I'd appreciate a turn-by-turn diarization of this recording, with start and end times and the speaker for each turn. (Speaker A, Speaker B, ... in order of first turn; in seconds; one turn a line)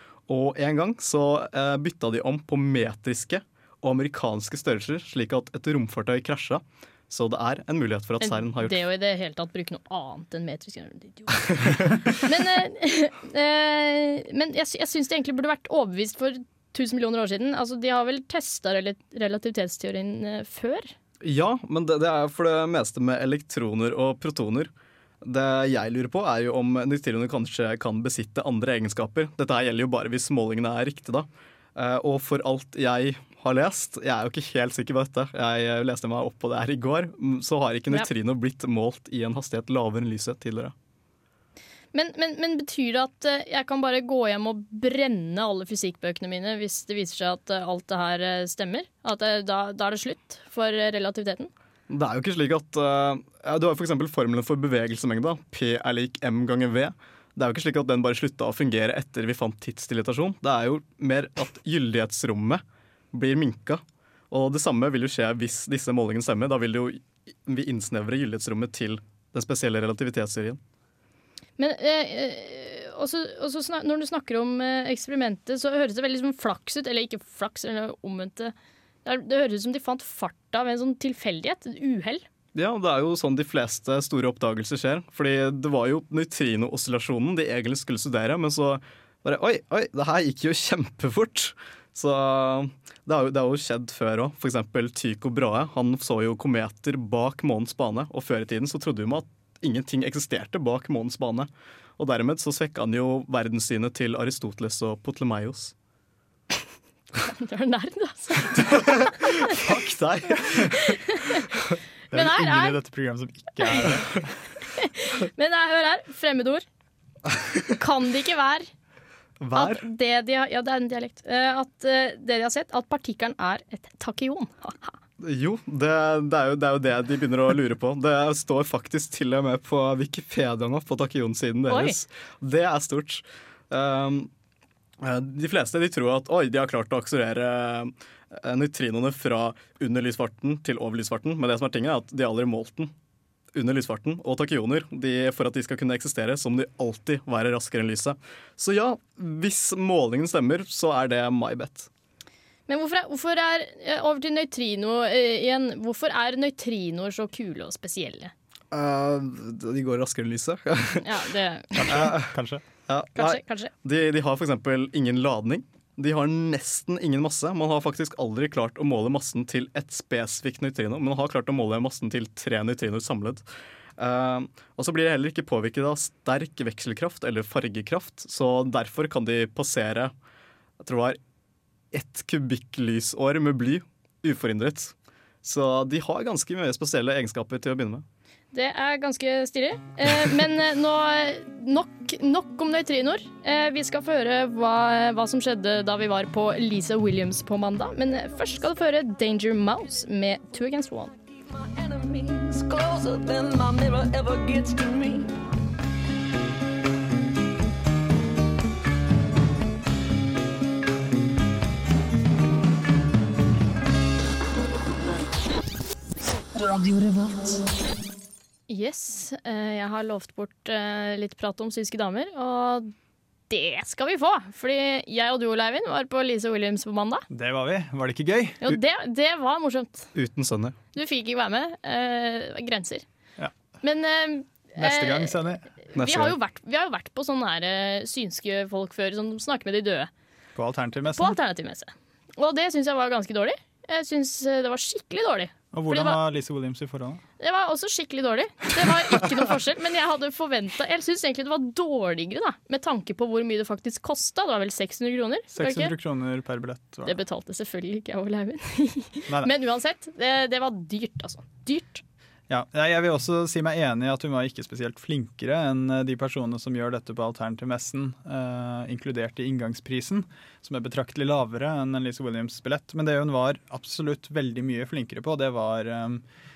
Speaker A: 0.3-8.8
Speaker B: 8.2-20.9
Speaker A: 11.5-11.9
Speaker A: 21.2-24.7
Speaker A: 25.2-40.7
Speaker B: 41.9-51.5
Speaker A: 51.9-70.6
Speaker B: 71.6-78.5
Speaker B: 79.0-82.2
Speaker A: 82.5-105.7
Speaker B: 107.2-109.5
Speaker A: 109.6-110.8
Speaker B: 110.5-111.4
Speaker B: 112.1-112.8
Speaker C: 112.1-114.4
Speaker B: 113.6-113.9
Speaker B: 114.7-116.6
Speaker B: 117.8-118.7
Speaker C: 119.4-119.7
Speaker B: 119.5-125.0
Speaker A: 125.2-134.3
Speaker B: 131.7-131.9
Speaker A: 135.0-142.9
Speaker A: 143.5-151.9
Speaker B: 152.7-158.3
Speaker A: 158.7-161.0
Speaker B: 161.0-162.0
Speaker C: 161.7-162.6
Speaker A: 161.9-162.3
Speaker A: 162.9-173.4
Speaker B: 163.2-163.7
Speaker A: 174.0-180.1
Speaker A: 180.8-181.2
Speaker A: 181.9-188.0
Speaker B: 188.5-201.1
Speaker D: 201.4-205.3
Speaker D: 216.6-217.6
Speaker B: 218.7-222.9
Speaker B: 223.5-227.2
Speaker C: 227.3-228.6
Speaker B: 228.6-230.1
Speaker A: 230.1-230.8
Speaker B: 230.9-233.0
Speaker B: 233.8-240.1
Speaker C: 234.8-235.7
Speaker A: 235.9-236.3
Speaker C: 240.6-241.4
Speaker B: 241.1-246.2
Speaker C: 245.7-247.2
Speaker B: 247.4-255.9
Speaker C: 255.5-257.1
Speaker B: 257.0-262.0
Speaker C: 262.5-276.2